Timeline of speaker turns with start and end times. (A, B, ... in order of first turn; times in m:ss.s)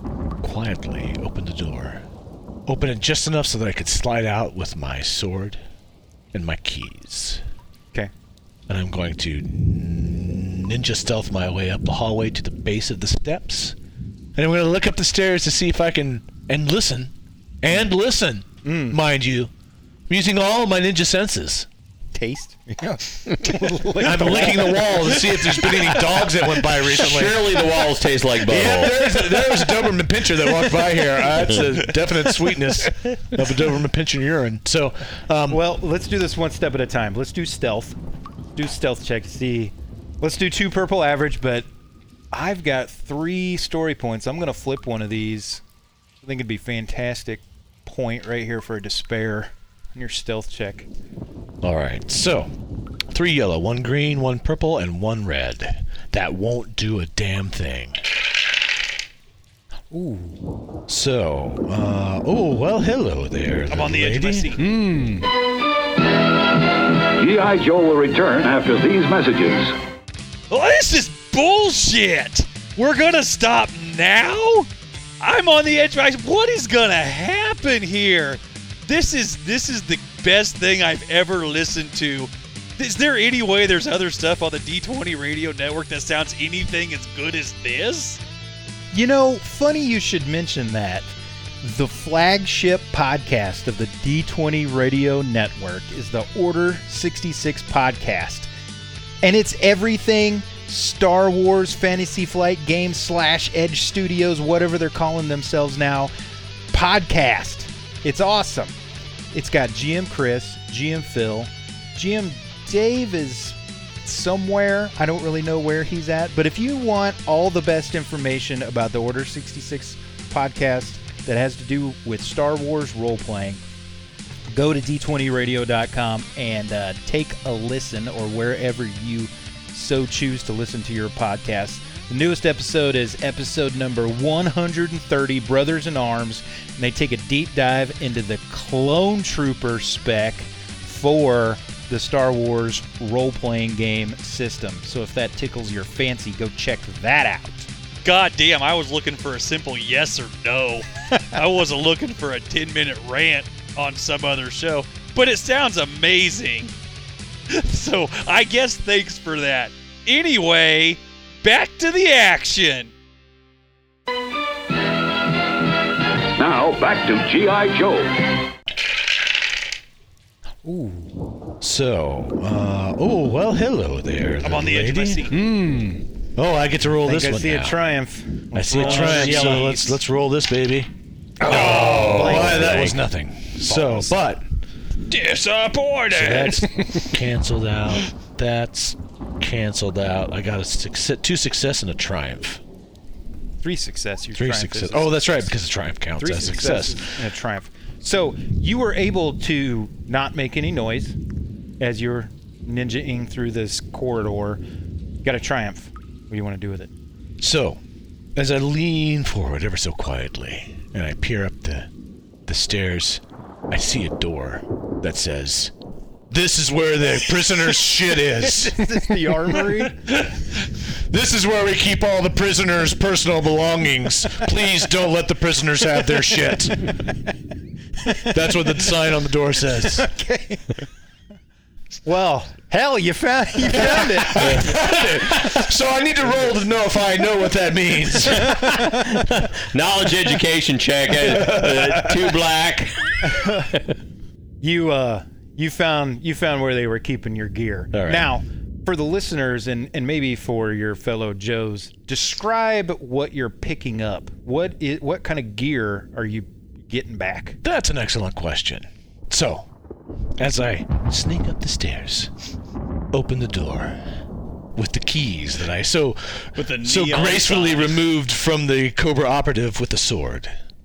0:00.4-0:02.0 A
0:02.7-0:05.6 A
0:06.3-0:07.4 A
0:08.7-0:13.8 A
0:14.4-0:19.5 A
0:18.6-0:19.0 B
0:20.1-0:21.7 A
0:22.1-0:26.3 B
0:24.0-0:27.7 A
0:26.8-0:29.1 C
0:28.4-0:35.6 A
0:31.4-0:31.7 C
0:35.5-0:38.0 B
0:38.6-0:41.7 B
0:42.3-0:45.6 B
0:46.2-0:50.9 B
0:51.6-0:52.5 A
0:53.1-0:58.0 A
0:59.9-1:00.4 B
1:00.9-1:05.1 A
1:03.7-1:04.6 D
1:07.1-1:09.8 E
1:10.5-1:14.7 D
1:15.2-1:28.2 D
1:28.9-1:38.5 B
1:39.2-1:46.1 B
1:46.7-1:48.8 B
1:49.3-2:03.6 B
2:04.5-2:27.7 B
2:28.0-2:36.7 D
2:37.5-2:42.9 D
2:46.4-2:48.2 E
2:50.6-2:51.1 B
2:51.6-2:57.8 A
2:54.4-2:55.4 D
2:57.0-2:59.8 B
2:58.5-3:00.9 A
2:58.8-3:00.0 D
3:01.4-3:04.4 A
3:01.4-3:03.0 B
3:01.9-3:02.9 C
3:03.6-3:04.2 B
3:05.1-3:06.7 D
3:06.1-3:12.6 A
3:13.6-3:15.5 B
3:14.4-3:17.0 A
3:16.2-3:21.2 B
3:21.8-3:24.6 B
3:25.2-3:26.9 B
3:27.4-3:27.8 A
3:28.4-3:31.9 A
3:32.5-3:35.7 A
3:36.3-3:39.0 A
3:38.4-3:40.2 B
3:39.6-3:40.3 A
3:41.1-3:46.9 A
3:48.2-3:50.1 A
3:50.0-3:50.8 B
3:52.0-3:54.8 B
3:53.8-3:58.9 A
3:54.4-3:54.8 C
3:58.4-3:58.7 B
3:58.9-4:03.3 C
4:01.3-4:01.9 A
4:03.2-4:03.7 B
4:04.6-4:17.6 B
4:07.9-4:08.3 A
4:17.6-4:19.7 A
4:20.4-4:22.3 A
4:23.1-4:24.0 A
4:24.8-4:30.5 A
4:26.6-4:28.1 D